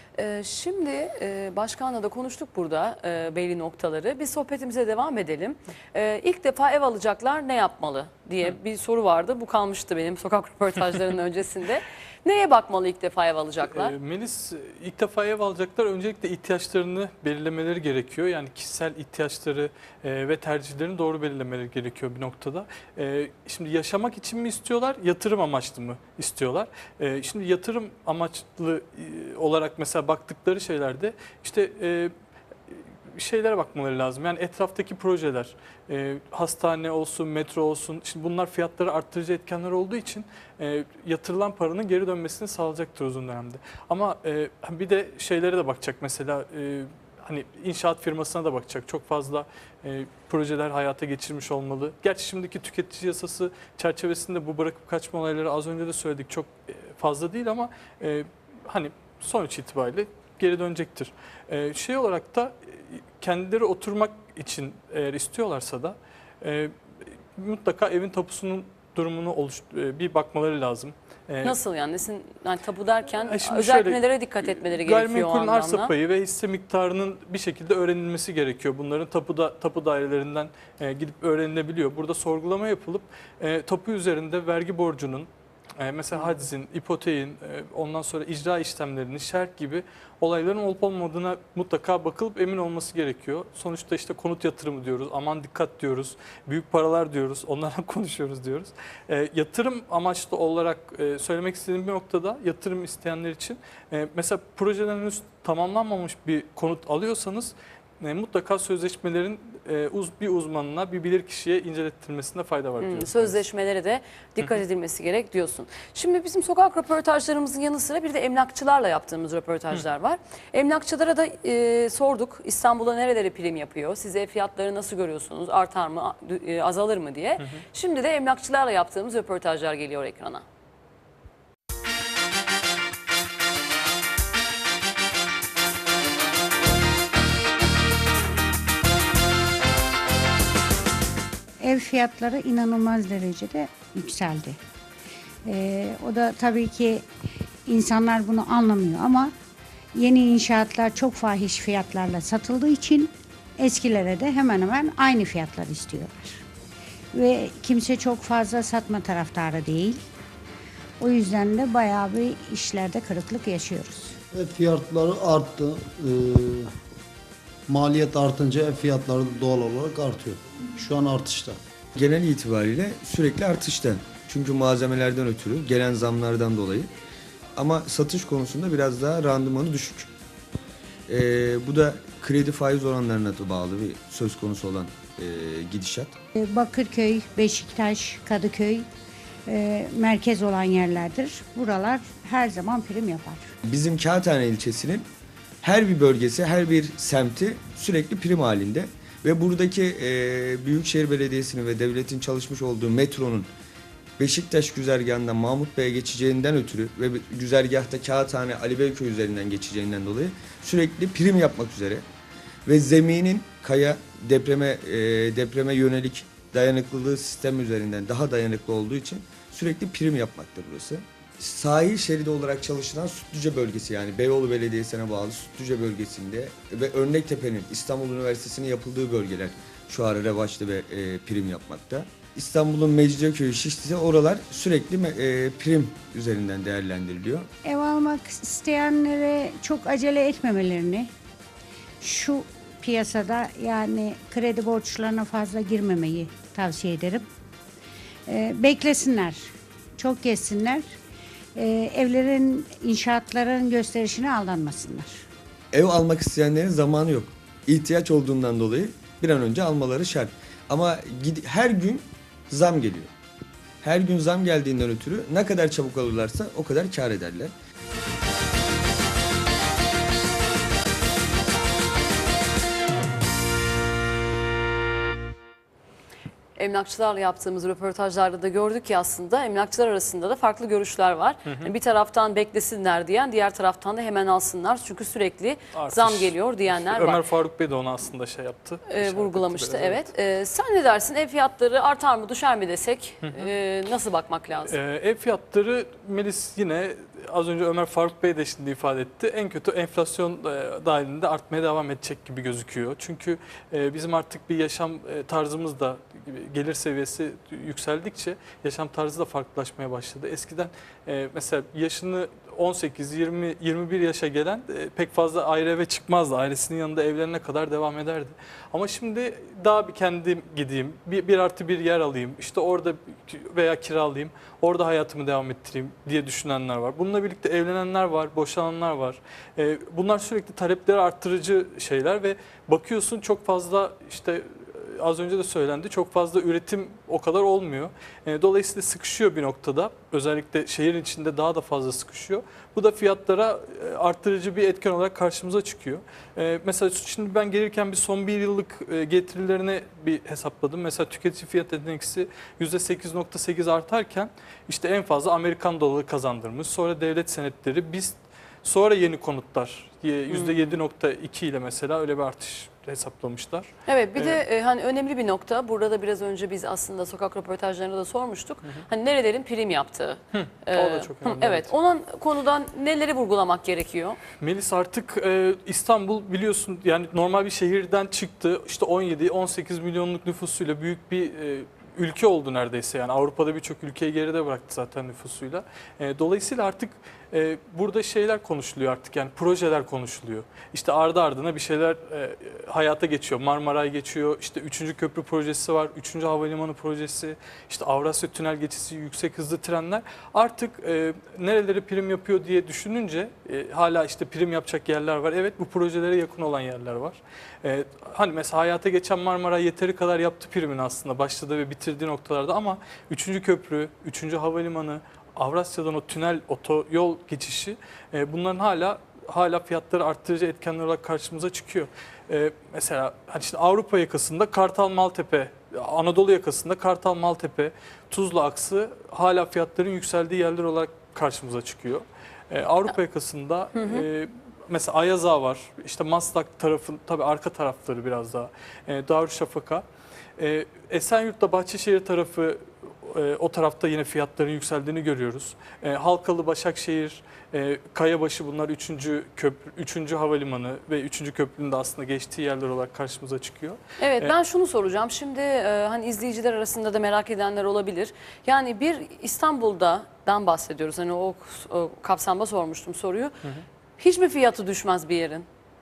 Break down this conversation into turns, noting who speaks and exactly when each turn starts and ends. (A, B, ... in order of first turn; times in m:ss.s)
0:00.2-0:13.9 A
0:13.6-0:32.1 B
0:33.1-1:06.7 B
1:07.4-1:11.6 B
1:11.4-1:15.9 A
1:13.2-1:25.3 B
1:25.8-1:53.4 B
1:52.8-2:10.4 A
2:21.6-2:24.6 C
2:25.5-2:27.1 C
2:27.7-2:29.3 C
2:30.0-2:36.4 C
2:37.1-2:40.0 C
2:41.0-2:44.2 C
2:44.3-2:46.7 D
2:47.7-2:51.6 D
2:52.0-2:56.9 E
2:57.6-3:00.1 E
3:01.1-3:06.2 E
3:06.4-3:08.9 C
3:09.5-3:13.4 C
3:13.6-3:15.1 E
3:15.6-3:23.5 E
3:24.2-3:32.0 E
3:32.7-3:57.5 E
3:57.6-4:01.1 C
4:02.0-4:07.3 C
4:08.3-4:10.9 C
4:11.6-4:15.2 C
4:15.7-4:23.1 E
4:23.8-4:27.5 E
4:36.6-4:47.2 A
4:41.5-4:41.7 B
4:45.7-4:50.1 B
4:48.9-4:54.8 A
4:54.7-6:04.4 B
6:00.3-6:00.8 A
6:03.9-6:14.2 A
6:10.3-6:11.7 B
6:14.4-7:19.8 B
7:13.8-7:14.1 A
7:20.4-7:34.3 B
7:34.0-7:43.3 A
7:44.0-7:45.5 A